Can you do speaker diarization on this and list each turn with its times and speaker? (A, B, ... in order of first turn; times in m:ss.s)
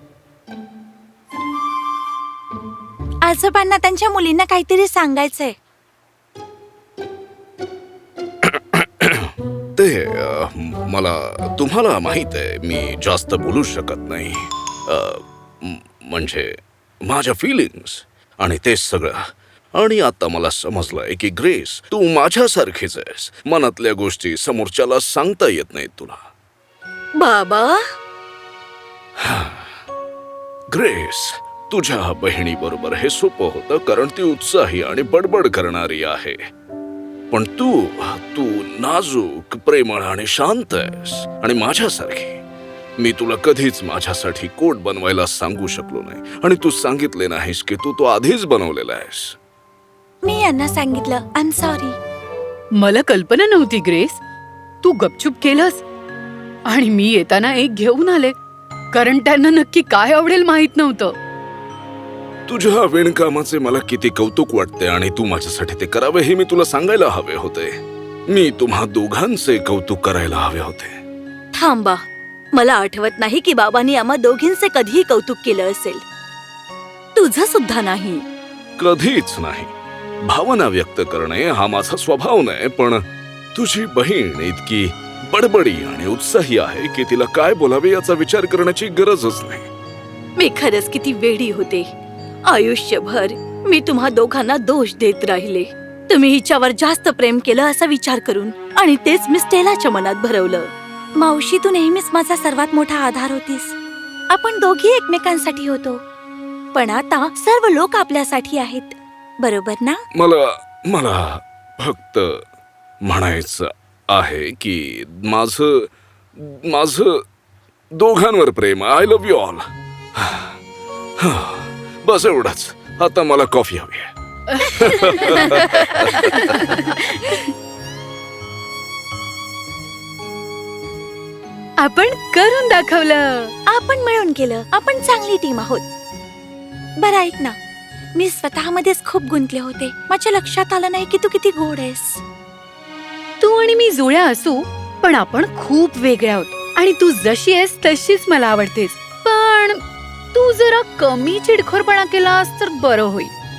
0:03.2-0:05.6 A
0:08.4-0:19.2 B
0:19.8-0:26.2 B
0:27.2-0:27.8 A
0:29.2-0:29.7 B
0:30.7-0:36.4 B
0:37.3-0:42.4 B
0:43.0-0:49.4 B
0:50.2-0:52.0 A
0:52.8-0:54.2 C
0:54.8-0:55.8 C
0:56.7-0:58.3 C
0:58.9-1:01.1 C
1:02.5-1:07.8 B
1:08.3-1:11.0 B
1:11.5-1:12.0 A
1:12.5-1:16.0 A
1:17.1-1:18.2 A
1:18.8-1:19.7 B
1:20.3-1:23.0 B
1:23.5-1:29.7 B
1:30.4-1:31.9 A
1:32.5-1:43.7 A
1:44.3-1:46.0 A
1:46.7-1:50.0 A
1:50.1-1:52.4 B
1:53.0-1:57.2 B
1:57.9-2:00.6 B
2:01.2-2:06.3 B
2:04.6-2:06.9 C
2:04.6-2:07.5 A
2:11.8-2:13.5 C
2:13.7-2:15.8 A
2:17.0-2:17.6 A
2:18.2-2:22.2 A
2:23.4-2:29.8 C
2:30.3-2:33.3 C